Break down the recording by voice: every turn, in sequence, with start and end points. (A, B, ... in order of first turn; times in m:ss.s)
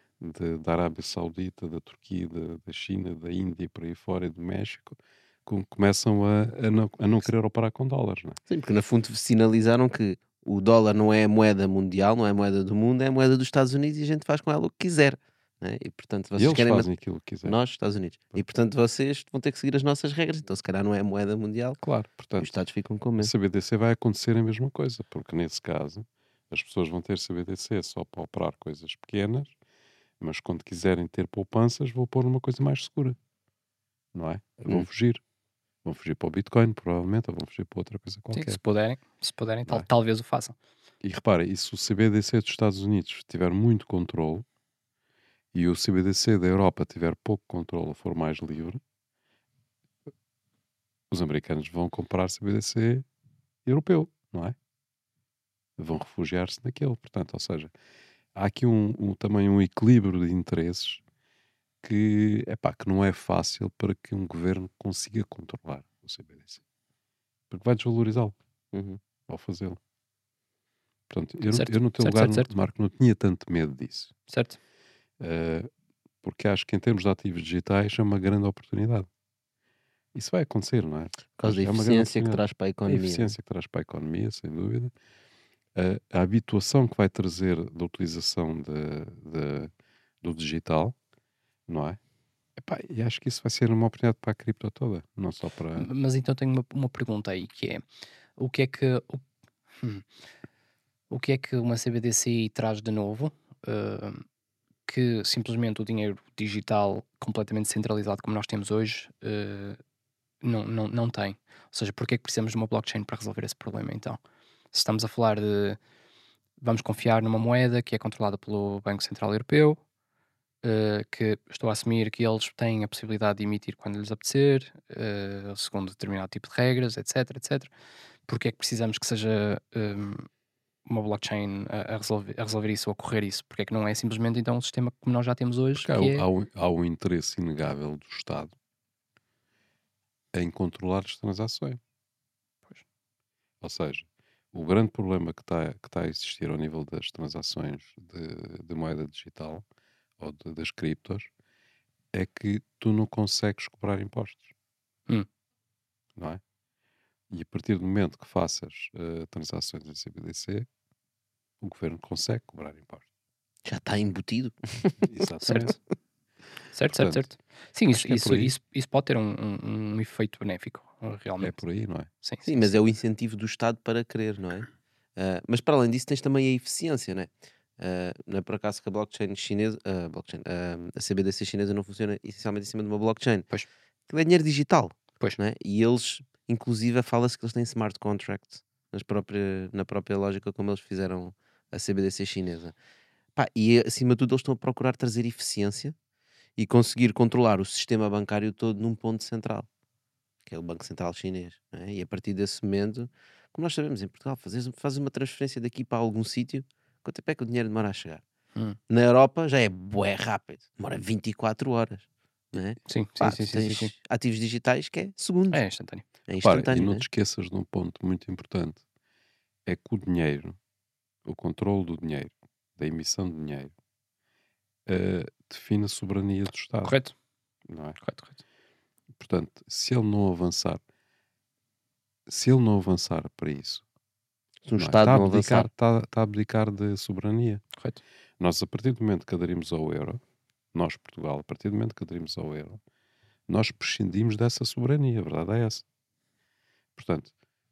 0:00.2-0:08.4 A
0:08.5-0:16.9 B
0:16.4-0:17.6 A
0:17.4-0:21.8 B
0:21.8-0:22.5 A
0:22.4-0:23.3 B
0:23.2-0:29.5 A
0:30.2-0:33.2 A
0:34.1-0:35.2 A
0:34.6-0:34.9 B
0:35.8-0:38.6 A
0:38.3-0:40.6 C
0:41.0-0:44.4 A
0:45.5-0:48.8 A
0:51.1-0:53.0 A
0:53.6-0:54.6 A
0:55.8-0:57.7 A
0:58.3-1:01.0 A
1:01.8-1:06.6 A
1:07.5-1:08.3 A
1:08.7-1:09.0 B
1:09.3-1:09.8 A
1:11.1-1:14.1 A
1:11.5-1:12.5 C
1:14.3-1:14.6 C
1:15.2-1:15.7 A
1:16.2-1:19.1 A
1:20.1-1:24.9 A
1:21.4-1:23.3 B
1:25.7-1:31.0 A
1:31.7-1:32.0 A
1:32.6-1:35.9 A
1:35.8-1:37.8 C
1:38.4-1:39.2 C
1:39.8-1:40.0 C
1:41.1-1:44.2 C
1:44.9-1:49.8 C
1:50.4-1:54.2 C
1:54.7-1:55.8 C
1:56.6-1:59.8 C
2:00.6-2:07.7 C
2:08.3-2:10.3 C
2:10.9-2:16.2 C
2:15.8-2:18.5 A
2:20.3-2:21.8 A
2:23.6-2:29.6 A
2:30.2-2:31.3 A
2:32.1-2:34.5 A
2:36.2-2:36.4 A
2:37.3-2:40.7 A
2:41.6-2:43.0 A
2:43.6-2:45.7 B
2:45.0-2:45.7 A
2:45.4-2:45.8 C
2:46.7-2:51.6 C
2:46.9-2:47.3 A
2:47.9-2:48.5 A
2:51.4-2:52.1 A
2:52.2-2:52.7 C
2:52.4-3:03.5 B
3:04.1-3:12.7 B
3:13.4-3:16.0 B
3:16.6-3:19.7 B
3:20.5-3:28.2 B
3:28.9-3:35.6 B
3:32.9-3:33.9 C
3:35.5-3:36.0 C
3:36.3-3:37.0 B
3:36.4-3:38.8 A
3:39.6-3:40.6 A
3:41.2-3:43.7 A
3:44.9-3:47.0 A
3:46.8-3:47.1 C
3:47.7-3:48.0 A
3:48.0-3:48.3 C
3:49.2-3:50.8 A
3:52.3-3:53.8 A
3:54.6-3:55.7 B
3:54.8-3:57.6 A
3:58.4-4:00.2 A
4:00.7-4:02.8 A
4:03.5-4:05.8 A
4:07.0-4:07.3 A